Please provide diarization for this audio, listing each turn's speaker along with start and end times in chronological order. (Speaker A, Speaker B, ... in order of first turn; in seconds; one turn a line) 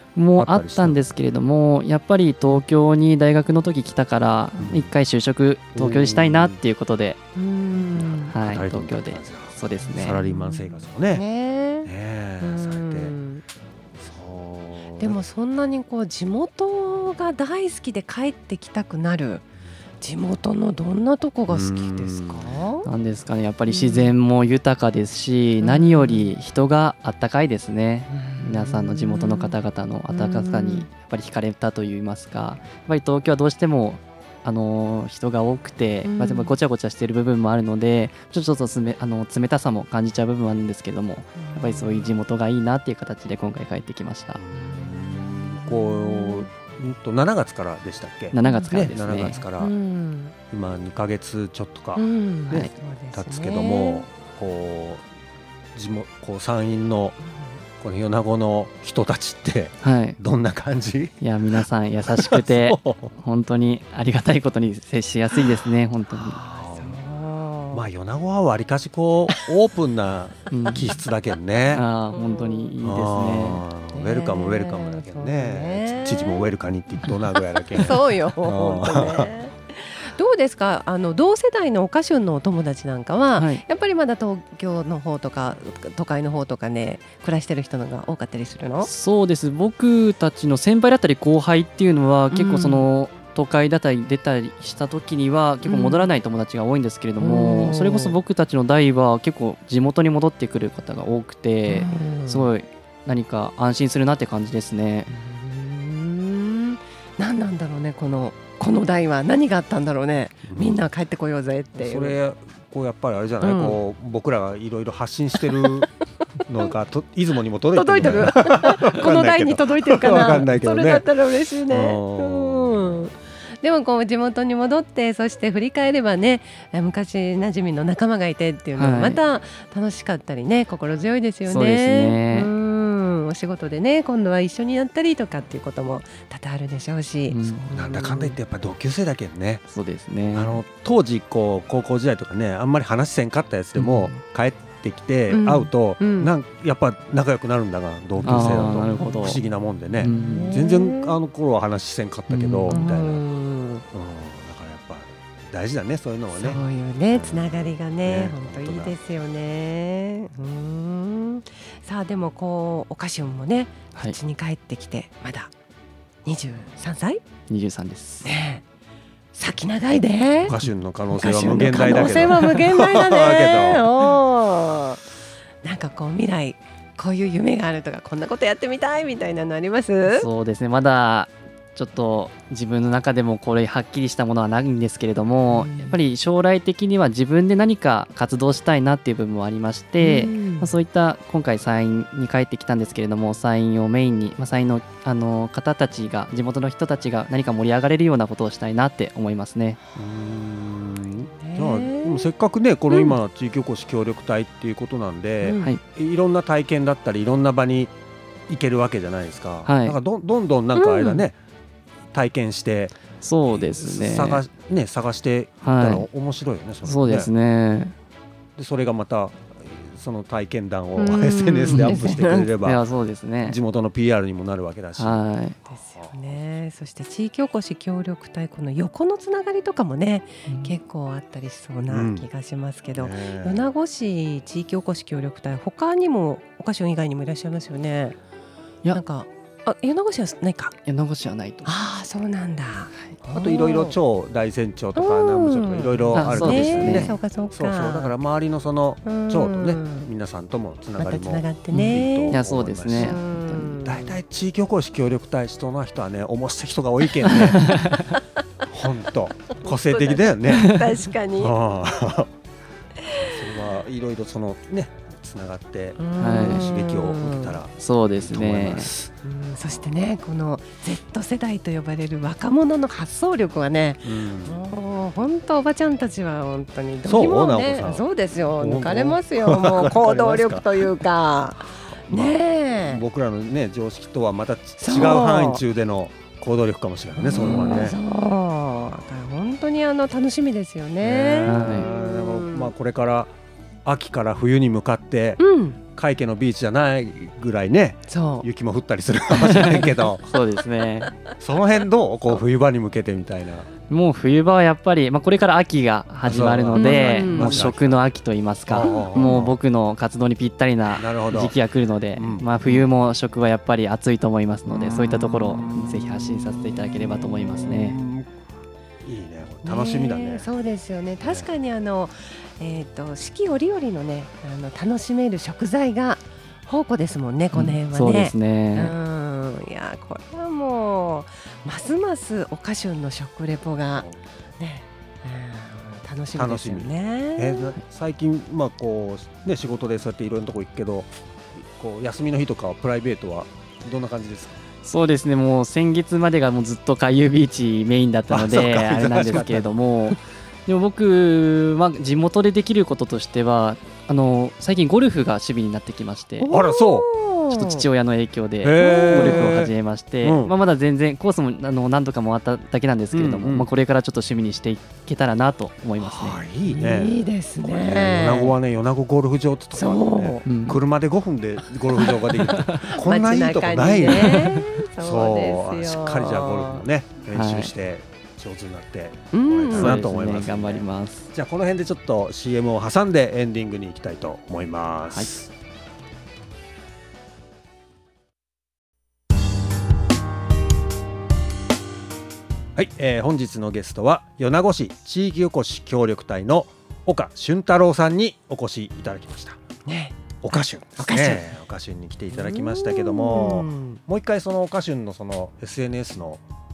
Speaker A: 0.1-7.2
Speaker B: 0.3-1.0
Speaker B: 4.6-4.9
Speaker B: 5.7-6.6
Speaker C: 7.3-8.3
Speaker B: 8.0-11.2
Speaker A: 8.3-10.2
Speaker C: 9.8-11.9
Speaker B: 11.8-13.1
Speaker C: 12.4-13.4
Speaker B: 14.0-15.2
Speaker C: 15.0-19.4
Speaker C: 20.0-22.9
Speaker B: 21.5-22.5
Speaker A: 22.8-44.4
Speaker C: 23.7-24.1
Speaker C: 25.6-26.3
Speaker C: 28.1-29.5
Speaker C: 30.1-30.9
Speaker C: 36.0-36.6
Speaker C: 41.4-42.1
Speaker B: 44.4-49.7
Speaker C: 44.5-46.5
Speaker A: 48.3-49.4
Speaker C: 48.4-48.7
Speaker C: 49.6-50.3
Speaker B: 50.5-55.0
Speaker C: 51.9-54.1
Speaker B: 55.7-57.2
Speaker B: 57.8-61.2
Speaker A: 59.8-60.2
Speaker A: 61.2-66.4
Speaker B: 62.1-63.1
Speaker C: 66.1-67.8
Speaker B: 66.5-67.0
Speaker B: 67.7-71.8
Speaker A: 70.5-70.9
Speaker A: 71.7-73.6
Speaker C: 72.1-72.7
Speaker B: 72.8-79.3
Speaker C: 73.9-76.5
Speaker C: 77.4-88.9
Speaker A: 83.3-83.6
Speaker A: 88.8-105.1
Speaker C: 92.3-92.9
Speaker C: 95.6-96.1
Speaker C: 97.2-98.2
Speaker C: 101.7-102.5
Speaker C: 105.1-112.2
Speaker B: 110.5-110.8
Speaker B: 111.7-115.9
Speaker A: 113.4-113.8
Speaker B: 116.5-121.1
Speaker C: 117.7-138.4
Speaker B: 121.7-123.0
Speaker A: 128.8-129.2
Speaker A: 131.4-132.5
Speaker A: 137.3-137.6
Speaker B: 137.7-139.6
Speaker A: 139.7-140.6
Speaker B: 140.3-153.2
Speaker A: 143.8-144.2
Speaker C: 145.3-146.3
Speaker A: 148.2-149.4
Speaker C: 148.3-149.4
Speaker A: 150.0-150.5
Speaker C: 150.0-151.2
Speaker A: 152.3-152.8
Speaker C: 152.7-153.8
Speaker B: 153.9-158.9
Speaker C: 156.3-165.5
Speaker C: 166.2-167.2
Speaker A: 167.5-168.3
Speaker C: 168.2-168.6
Speaker C: 169.3-170.6
Speaker B: 170.4-174.1
Speaker C: 171.1-175.0
Speaker C: 175.6-180.3
Speaker A: 180.0-199.8
Speaker C: 185.5-186.0
Speaker C: 190.0-190.7
Speaker B: 199.9-207.9
Speaker C: 201.4-202.3
Speaker C: 202.9-203.2
Speaker C: 205.4-205.7
Speaker B: 208.5-211.3
Speaker A: 209.6-210.0
Speaker C: 210.7-211.3
Speaker B: 212.1-212.9
Speaker A: 213.2-214.4
Speaker B: 213.5-217.3
Speaker A: 215.6-216.1
Speaker A: 216.8-217.9
Speaker B: 218.6-222.8
Speaker C: 221.0-222.5
Speaker A: 221.7-222.0
Speaker A: 222.6-223.6
Speaker B: 223.4-225.2
Speaker A: 225.0-225.6
Speaker C: 225.7-238.2
Speaker B: 226.0-226.4
Speaker A: 230.5-230.7
Speaker B: 231.9-232.2
Speaker B: 232.9-233.7
Speaker C: 238.9-240.7
Speaker A: 240.8-241.7
Speaker C: 241.6-244.0
Speaker B: 243.2-257.8
Speaker C: 244.9-248.1
Speaker A: 246.1-247.1
Speaker C: 249.0-250.1
Speaker C: 251.0-252.4
Speaker A: 251.7-253.7
Speaker C: 252.9-254.2
Speaker A: 257.3-258.1
Speaker B: 258.7-260.8
Speaker C: 259.6-261.5
Speaker B: 261.4-262.3
Speaker C: 263.0-263.5
Speaker B: 263.1-269.1
Speaker C: 266.0-267.6
Speaker A: 266.2-266.7
Speaker A: 267.8-268.9
Speaker C: 269.2-283.0
Speaker B: 274.0-274.6
Speaker B: 277.0-280.9
Speaker B: 282.1-288.0
Speaker C: 284.8-285.6
Speaker C: 287.2-292.7
Speaker B: 291.0-293.3
Speaker A: 291.4-291.9
Speaker B: 293.8-300.3
Speaker C: 295.4-295.8
Speaker C: 298.1-298.5
Speaker A: 299.4-301.1
Speaker B: 301.3-303.7
Speaker A: 303.9-318.0
Speaker B: 306.2-308.0
Speaker C: 306.7-307.6
Speaker B: 308.7-309.6
Speaker C: 308.8-309.4
Speaker B: 310.9-311.5
Speaker B: 312.1-312.9
Speaker B: 314.7-316.1
Speaker B: 317.5-318.3
Speaker B: 319.0-320.4
Speaker C: 319.6-334.1
Speaker B: 321.2-321.5
Speaker A: 327.5-328.9
Speaker C: 334.6-337.8
Speaker B: 336.3-344.6
Speaker A: 344.8-356.5
Speaker B: 348.3-349.7
Speaker C: 356.4-357.9
Speaker B: 356.5-357.1
Speaker A: 357.5-366.4
Speaker B: 358.6-360.5
Speaker C: 358.8-359.6
Speaker B: 363.1-363.7
Speaker B: 366.0-385.5
Speaker C: 366.6-368.6
Speaker C: 369.7-370.4
Speaker A: 370.4-370.8
Speaker C: 371.6-376.9
Speaker A: 372.5-372.9
Speaker A: 374.4-374.6
Speaker A: 377.3-377.7
Speaker C: 379.3-380.1
Speaker A: 379.7-381.3
Speaker B: 392.8-399.6
Speaker C: 399.8-401.5
Speaker B: 400.4-406.4
Speaker C: 402.3-404.0